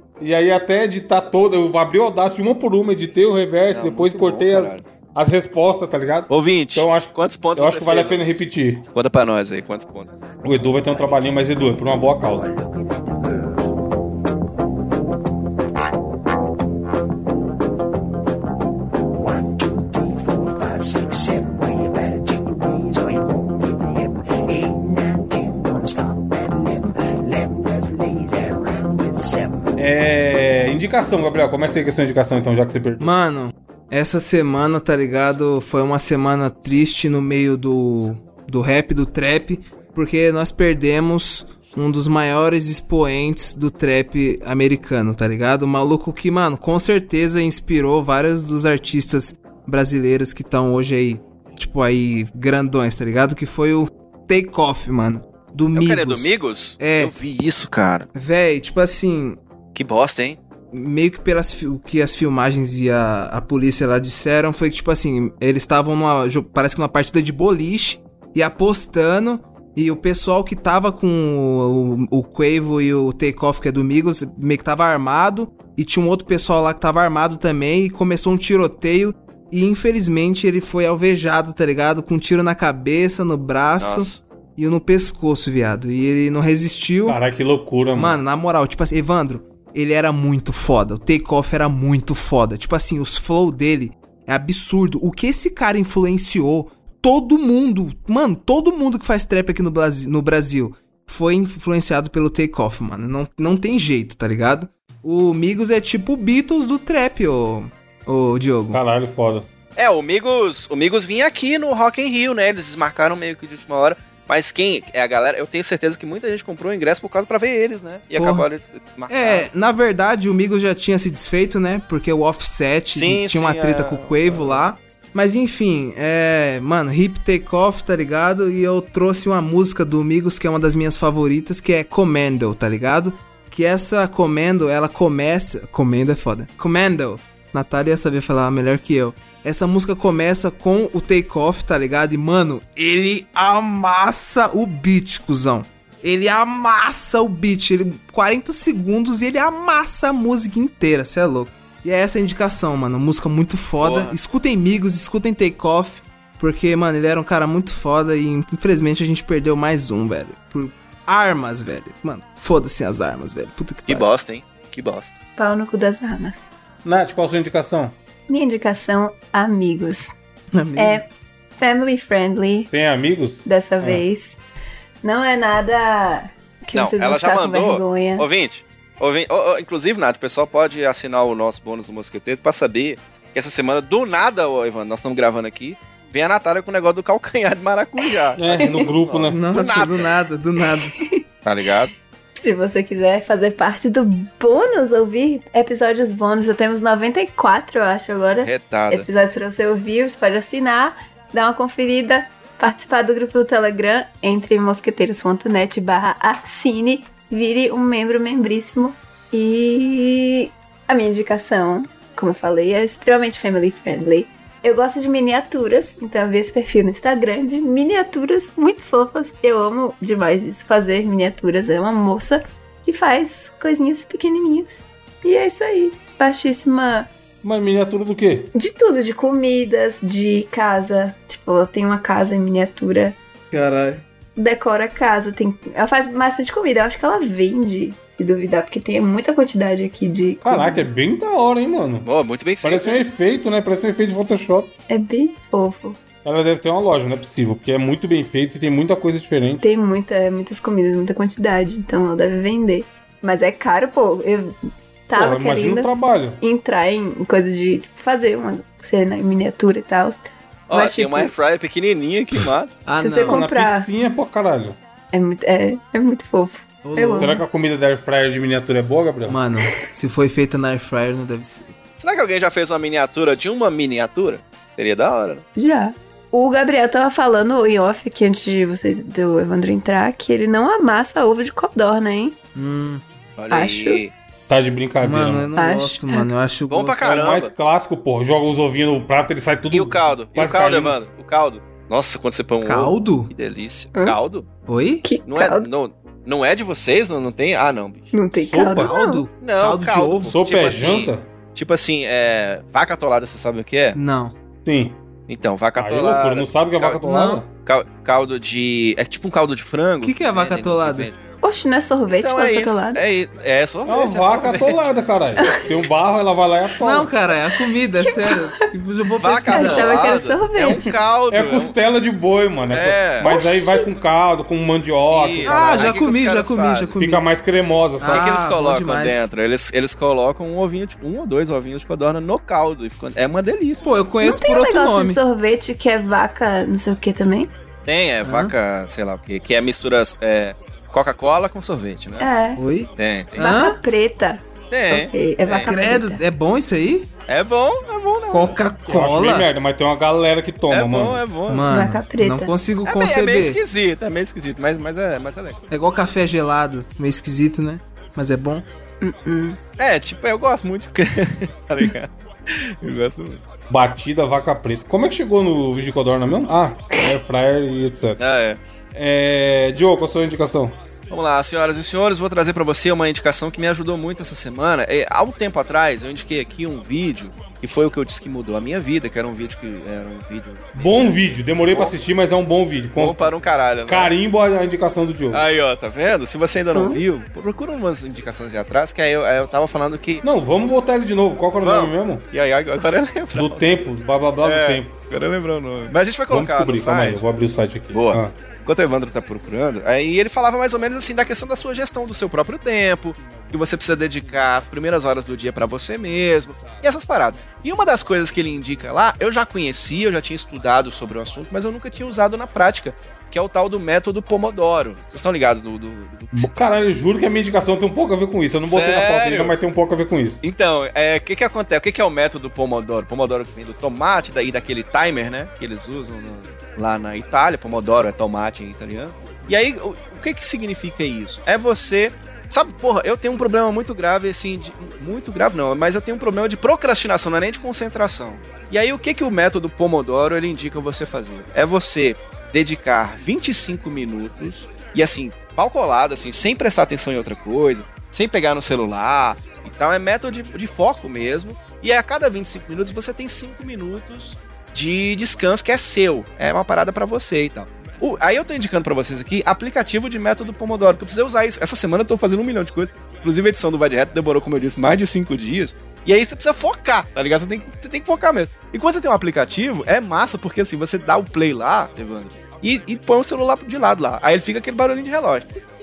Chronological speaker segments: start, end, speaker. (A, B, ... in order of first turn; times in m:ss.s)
0:00.2-0:08.8 A
0:03.7-0:04.8 B
0:06.3-0:08.3 B
0:08.9-0:10.1 B
0:10.4-0:12.4 A
0:29.8-0:33.1 A
0:33.0-0:57.1 C
0:55.7-0:58.1 B
0:58.1-0:59.4 C
0:59.7-1:00.4 B
1:00.7-1:27.2 C
1:23.8-1:24.2 B
1:27.1-1:28.2 A
1:27.9-1:48.8 C
1:48.7-1:49.5 A
1:49.8-1:59.5 B
1:58.1-1:58.5 C
1:59.1-2:44.1 C
2:02.9-2:04.6 B
2:33.8-2:34.2 B
2:43.9-2:45.2 B
2:45.4-2:46.5 D
2:46.8-2:47.9 A
2:48.3-2:50.1 D
2:50.5-2:51.2 C
2:50.8-2:51.0 D
2:51.6-2:52.7 D
2:52.7-2:53.4 A
2:53.4-2:54.4 D
2:55.0-2:58.2 D
2:56.7-3:10.1 B
3:08.4-3:09.4 A
3:09.3-3:11.0 C
3:11.4-3:11.9 B
3:12.3-3:47.1 D
3:18.4-3:19.1 B
3:47.4-3:48.5 A
3:48.5-3:53.2 D
3:53.5-3:54.0 C
3:54.4-4:00.8 D
4:00.4-4:02.1 A
4:02.0-4:03.0 B
4:02.6-4:04.7 A
4:04.9-4:06.0 D
4:06.2-4:09.6 A
4:09.6-4:14.6 D
4:15.1-4:21.3 D
4:15.1-4:16.4 A
4:20.7-4:22.8 B
4:22.8-4:23.4 C
4:23.0-4:23.9 D
4:23.2-4:24.8 A
4:25.1-4:27.4 D
4:26.8-4:27.4 C
4:27.2-4:29.4 A
4:29.3-4:31.7 C
4:32.0-4:35.4 B
4:35.6-4:42.4 D
4:42.5-4:43.0 C
4:43.4-4:44.1 B
4:43.5-4:44.0 D
4:44.5-4:45.5 A
4:45.0-4:47.1 C
4:45.6-4:46.3 D
4:46.7-4:47.5 B
4:47.0-4:51.0 A
4:49.7-4:54.5 B
4:52.6-4:53.3 C
4:54.7-4:55.0 C
4:55.0-4:55.7 D
4:55.3-4:58.1 B
4:58.1-4:59.2 D
4:58.3-4:59.0 A
4:58.6-5:00.4 C
4:59.4-5:04.0 B
5:00.3-5:01.3 A
5:03.9-5:04.3 C
5:04.6-5:05.0 A
5:05.3-5:07.0 B
5:05.8-5:07.5 A
5:07.0-5:07.4 C
5:07.6-5:11.2 B
5:10.0-5:11.1 C
5:11.4-5:13.0 D
5:12.1-5:14.8 B
5:13.8-5:17.1 A
5:16.8-5:20.0 C
5:18.0-5:18.4 D
5:19.2-5:21.7 B
5:19.5-5:20.8 D
5:21.3-5:25.9 A
5:22.7-5:23.3 B
5:23.2-5:23.9 D
5:25.1-5:27.0 B
5:25.4-5:27.2 C
5:27.0-5:28.3 A
5:28.0-5:29.3 C
5:28.0-5:33.8 B
5:33.8-5:35.2 C
5:34.2-5:37.5 D
5:37.8-5:42.3 B
5:38.2-5:38.5 C
5:42.2-5:42.6 D
5:42.6-5:43.8 C
5:43.0-5:43.3 B
5:43.4-5:46.2 D
5:44.7-5:45.7 B
5:45.6-5:47.1 C
5:47.3-5:48.6 B
5:48.3-5:49.5 C
5:48.9-5:51.2 A
5:50.7-5:51.7 B
5:51.5-5:53.6 C
5:51.7-5:52.5 D
5:52.8-5:55.6 B
5:55.7-5:58.7 C
5:59.0-5:59.6 D
5:59.8-6:03.4 B
6:03.7-6:08.2 A
6:08.2-6:08.6 B
6:08.9-6:10.8 A
6:11.1-6:22.0 B
6:20.8-6:23.2 A
6:23.0-6:24.1 B
6:23.9-6:25.4 A
6:25.3-6:30.2 B
6:30.2-6:32.2 A
6:31.6-6:33.6 B
6:33.3-6:34.9 A
6:34.4-6:37.2 B
6:36.3-6:38.3 A
6:37.9-6:56.8 B
6:56.3-7:00.4 A
6:58.6-6:59.5 B
7:00.4-7:55.5 B